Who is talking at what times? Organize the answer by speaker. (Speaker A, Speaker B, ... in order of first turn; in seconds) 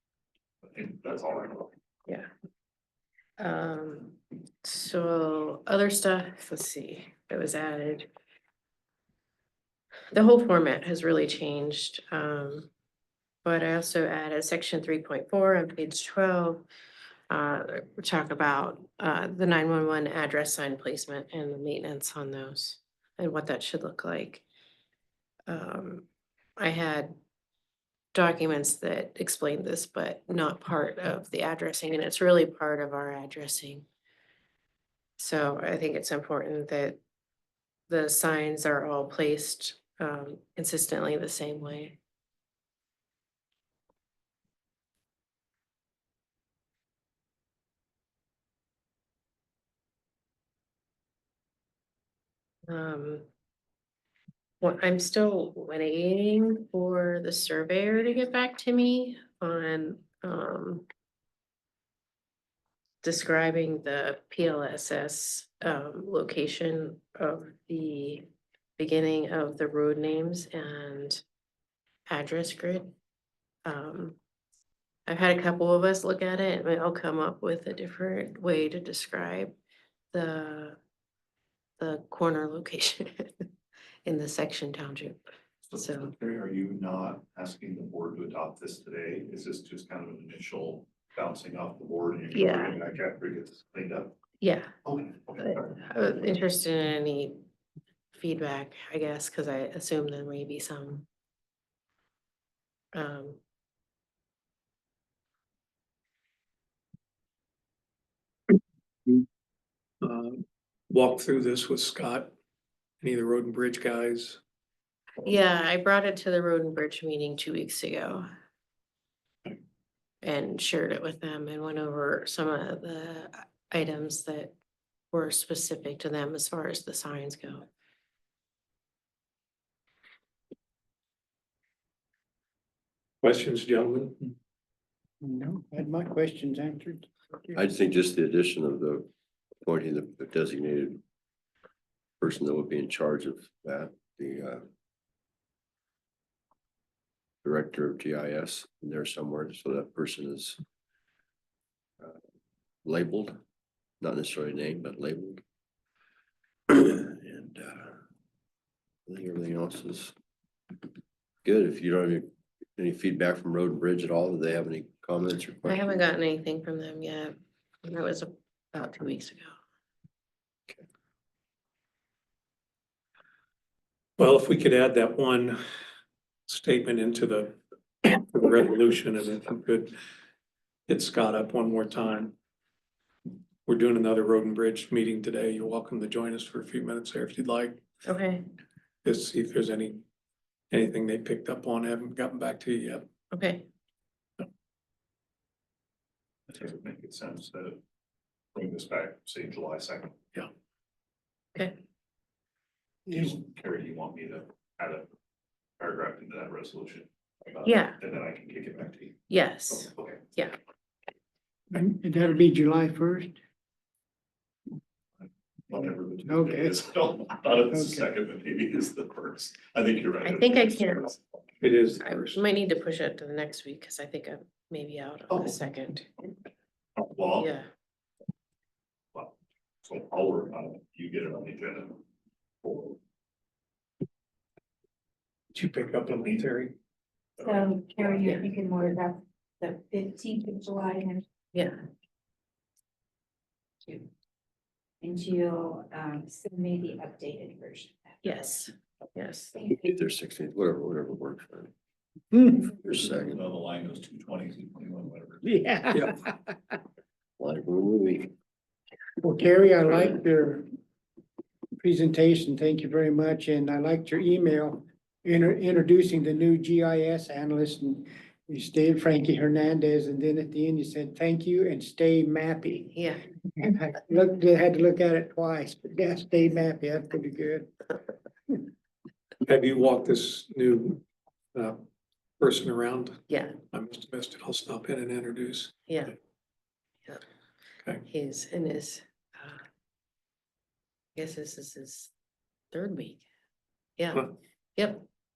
Speaker A: 0.6-1.7, 85.7-94.1, 94.8-95.8, 196.5-197.8, 198.5-200.2, 203.1-205.1, 205.8-210.2, 215.7-221.1, 227.0-227.6, 229.1-232.0, 232.6-233.0, 253.2-255.5
Speaker B: 3.4-8.1, 10.1-12.7, 13.4-16.7, 17.3-24.4, 25.5-26.1, 26.6-27.1, 28.1-33.9, 35.2-37.0, 37.9-42.0, 52.7-53.2, 54.6-60.8, 63.0-68.3, 68.8-71.2, 72.1-72.9, 73.6-74.2, 75.1-79.5, 80.1-80.8, 81.8-83.5, 84.0-85.2, 85.8-86.1, 92.3-92.8, 94.4-94.7, 95.4-97.4, 98.1-101.1, 102.9-103.4, 115.2-118.2, 120.2-124.5, 125.1-127.7, 165.6-169.6, 188.0-188.4, 193.3-193.7, 207.6-208.0, 209.3-210.5, 220.2-221.2, 222.0-226.1, 227.3-227.7, 248.2-249.5, 272.9-273.3, 283.3-283.6, 285.9-286.1, 288.0-289.6, 291.1-292.1, 292.7-293.2, 294.0-295.1
Speaker C: 110.0-112.3, 113.0-114.4, 133.2-134.3, 174.2-175.6, 176.5-179.9, 180.9-182.3, 183.7-187.8, 189.0-190.0, 190.7-193.1, 221.6-222.4, 235.5-236.7, 279.4-281.0, 281.5-281.8, 282.4-285.7
Speaker D: 135.2-137.6, 203.1-203.3, 211.7-213.3, 216.2-216.7, 217.7-218.0, 252.3-252.7, 255.4-256.5, 259.2-260.6, 261.8-272.9, 273.6-277.7
Speaker E: 137.5-139.1, 139.6-141.0, 142.2-144.6, 147.4-150.6, 152.8-153.4, 154.0-155.4, 156.7-158.0, 159.1-160.1, 161.4-165.9, 249.6-251.7, 252.7-253.4, 257.4-258.3
Speaker F: 237.4-241.2, 245.0-248.5